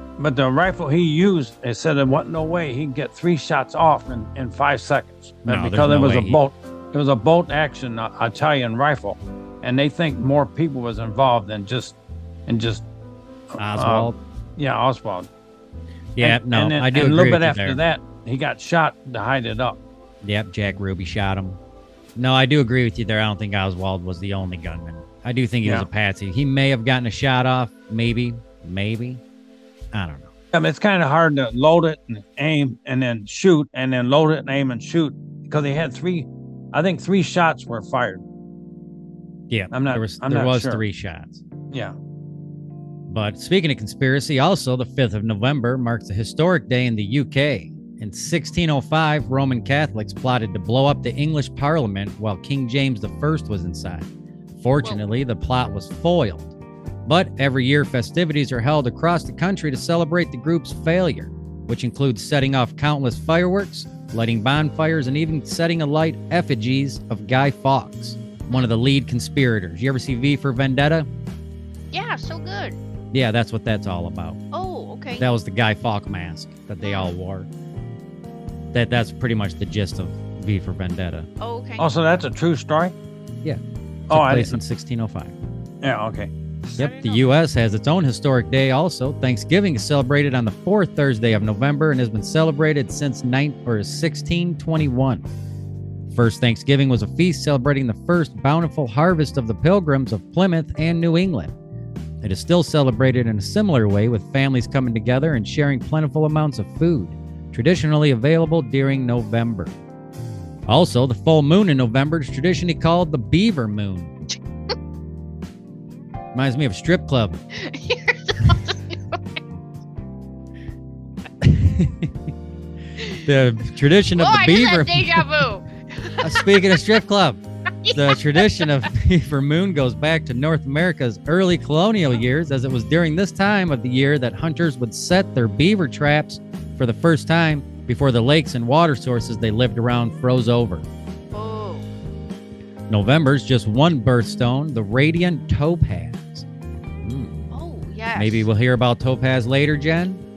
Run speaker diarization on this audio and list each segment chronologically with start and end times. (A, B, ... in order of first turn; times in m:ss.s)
0:00.2-0:12.8 A
0:05.5-0:06.4 B
0:13.5-0:15.3 A
0:13.6-0:14.2 B
0:16.2-0:17.8 B
0:16.2-0:19.8 A
0:20.2-0:21.6 B
0:22.2-0:29.2 B
0:29.9-0:30.3 B
0:30.5-0:38.2 A
0:39.5-0:41.4 B
0:39.7-0:40.8 A
0:43.1-0:56.5 B
0:57.1-1:11.1 B
1:11.9-1:12.8 C
1:13.1-1:14.4 B
1:14.5-1:15.3 C
1:15.2-1:17.5 B
1:16.8-1:17.1 C
1:18.7-1:21.3 B
1:21.4-1:21.9 C
1:21.8-1:22.9 A
1:23.4-1:25.4 B
1:24.1-1:24.6 A
1:25.8-1:26.3 A
1:26.8-1:27.3 C
1:26.8-1:35.3 B
1:36.1-1:41.5 B
1:42.2-1:49.7 B
1:50.7-1:54.1 B
1:56.3-1:57.4 B
1:57.5-1:59.2 C
2:01.4-2:02.3 B
2:03.0-2:05.4 B
2:04.2-2:06.4 C
2:06.2-2:20.8 B
2:07.8-2:08.4 C
2:21.3-2:21.9 C
2:22.9-2:26.5 B
2:27.0-2:27.5 B
2:27.5-2:28.5 C
2:28.2-2:30.2 B